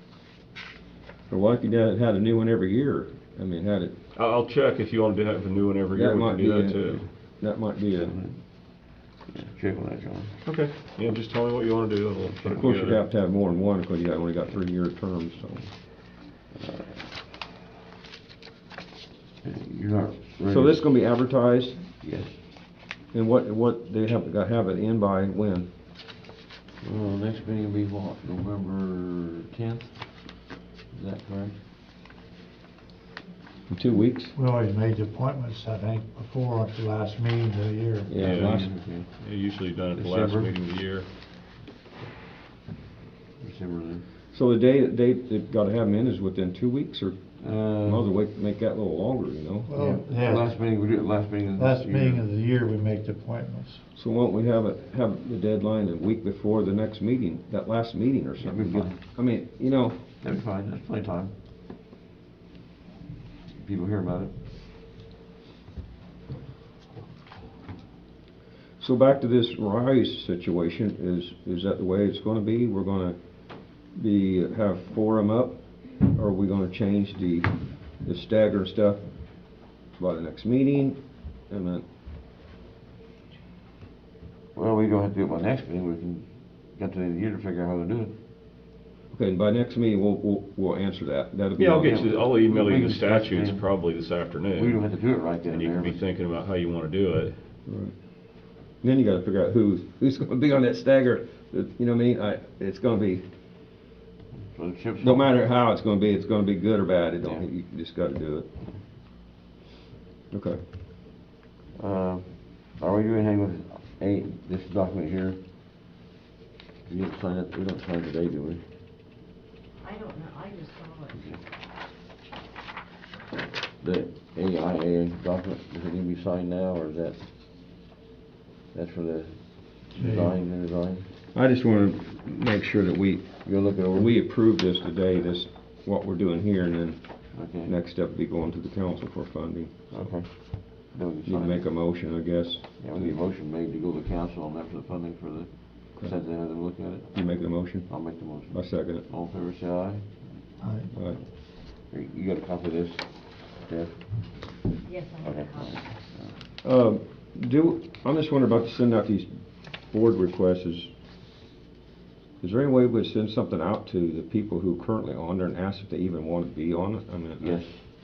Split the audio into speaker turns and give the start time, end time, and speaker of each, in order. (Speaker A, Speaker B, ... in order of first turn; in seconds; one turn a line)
Speaker A: 1.3-4.0
Speaker B: 4.2-7.0
Speaker A: 5.9-8.2
Speaker C: 8.0-10.3
Speaker B: 10.4-13.0
Speaker A: 12.5-15.7
Speaker C: 16.6-17.1
Speaker C: 19.4-20.8
Speaker A: 20.5-21.8
Speaker C: 22.0-22.4
Speaker A: 23.1-25.7
Speaker C: 26.8-31.6
Speaker A: 33.7-34.3
Speaker D: 34.3-38.1
Speaker A: 38.1-38.7
Speaker C: 38.1-39.1
Speaker B: 38.2-38.7
Speaker B: 39.2-41.1
Speaker C: 39.9-40.5
Speaker C: 43.4-44.0
Speaker A: 44.3-49.7
Speaker C: 47.4-48.0
Speaker D: 49.7-50.5
Speaker C: 49.8-52.2
Speaker D: 51.5-53.8
Speaker A: 54.0-60.0
Speaker C: 58.4-59.0
Speaker C: 60.2-61.3
Speaker C: 63.5-64.3
Speaker A: 68.8-73.2
Speaker A: 73.9-81.8
Speaker C: 84.5-88.2
Speaker A: 89.1-92.0
Speaker B: 91.6-94.8
Speaker C: 91.8-93.7
Speaker C: 94.5-96.0
Speaker B: 95.4-97.4
Speaker A: 97.7-97.9
Speaker A: 98.8-103.3
Speaker C: 104.5-105.3
Speaker A: 105.0-108.5
Speaker A: 110.3-110.6
Speaker C: 111.8-115.4
Speaker C: 116.8-118.6
Speaker E: 119.8-121.3
Speaker C: 121.2-121.4
Speaker C: 123.8-127.3
Speaker C: 128.7-131.1
Speaker D: 129.9-130.3
Speaker A: 131.3-140.1
Speaker C: 133.4-134.1
Speaker C: 137.3-137.7
Speaker C: 139.9-141.8
Speaker A: 141.2-143.2
Speaker C: 142.8-150.5
Speaker A: 147.1-149.1
Speaker D: 150.6-150.9
Speaker A: 150.9-151.2
Speaker C: 151.1-154.6
Speaker E: 154.8-155.9
Speaker C: 155.2-156.3
Speaker A: 156.6-160.9
Speaker A: 162.4-167.7
Speaker C: 167.4-167.8